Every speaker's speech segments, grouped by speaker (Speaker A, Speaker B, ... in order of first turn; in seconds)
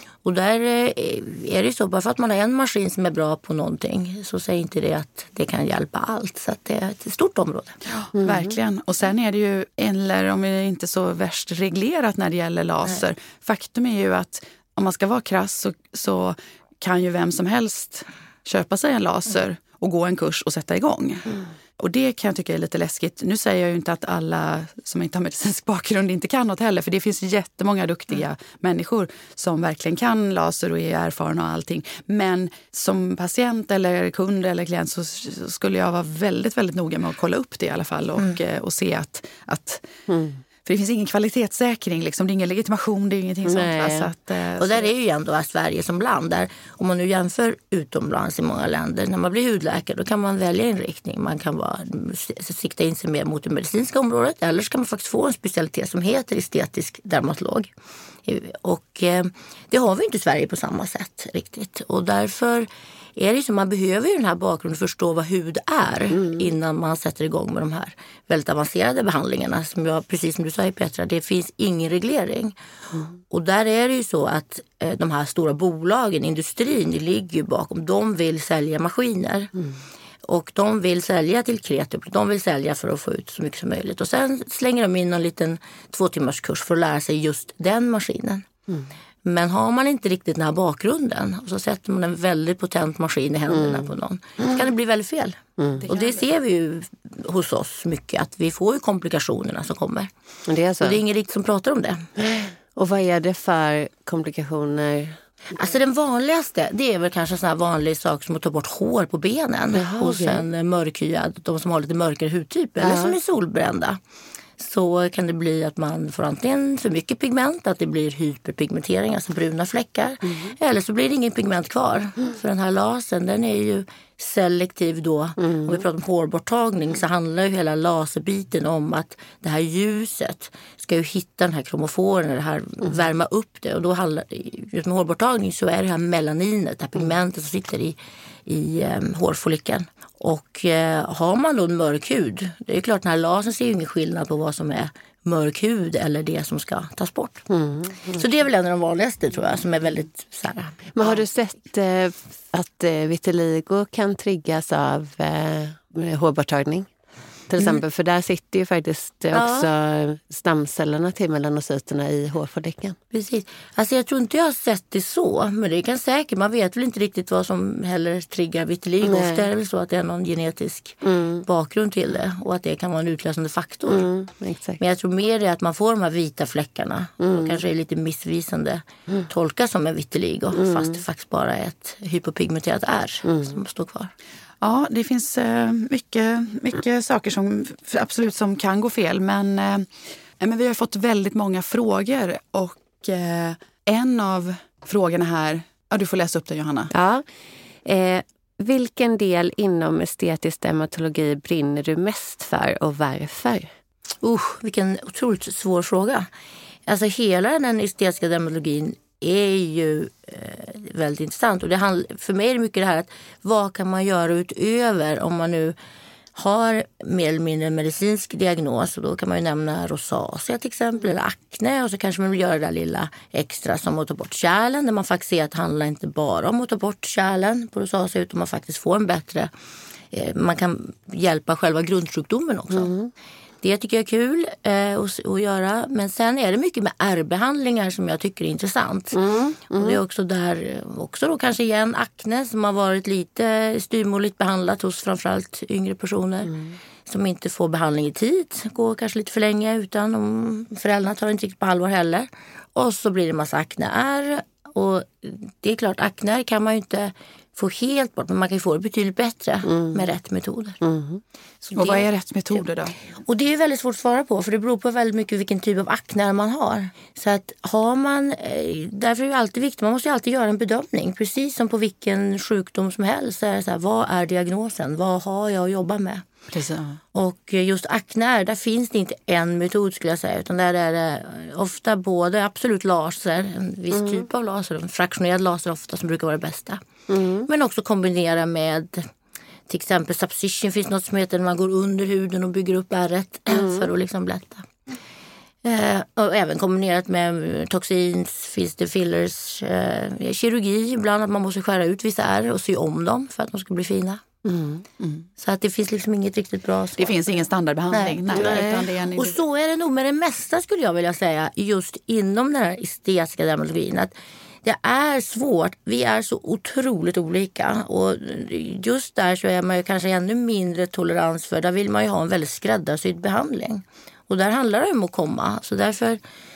Speaker A: 0.2-7.8, 44.6-57.7, 58.2-72.5, 73.3-79.5, 80.2-88.5, 89.2-100.1, 100.8-102.1, 105.6-114.0, 114.6-147.5, 148.1-150.8, 159.3-159.7, 163.1-174.1, 174.8-184.1, 204.2-206.3, 206.9-215.8, 216.3-229.5, 230.1-232.9, 233.6-239.2, 239.7-246.5, 247.1-260.8, 261.6-262.1, 263.2-276.3, 277.1-286.8, 287.5-289.1, 289.7-294.7, 295.6-304.2, 305.4-307.2, 307.9-326.2
Speaker B: 7.9-39.9, 40.6-44.9, 95.8-96.2, 184.6-196.9, 261.7-263.0, 276.5-277.0, 305.0-305.3, 307.0-309.4
Speaker C: 8.2-8.5, 40.1-40.4, 43.5-44.1, 93.5-93.9, 100.5-101.0, 102.2-105.2, 109.7-110.5, 112.8-113.2, 120.2-120.5, 125.4-125.7, 147.5-148.2, 150.9-156.9, 157.5-163.0, 169.0-169.5, 171.0-171.4, 173.9-174.8, 177.2-177.6, 180.6-180.9, 183.3-183.6, 196.9-197.2, 197.8-203.7, 232.7-233.1, 239.1-240.0, 246.5-246.8, 259.6-260.0, 260.8-261.2, 283.9-284.2, 287.1-287.5, 293.5-293.9, 304.4-304.8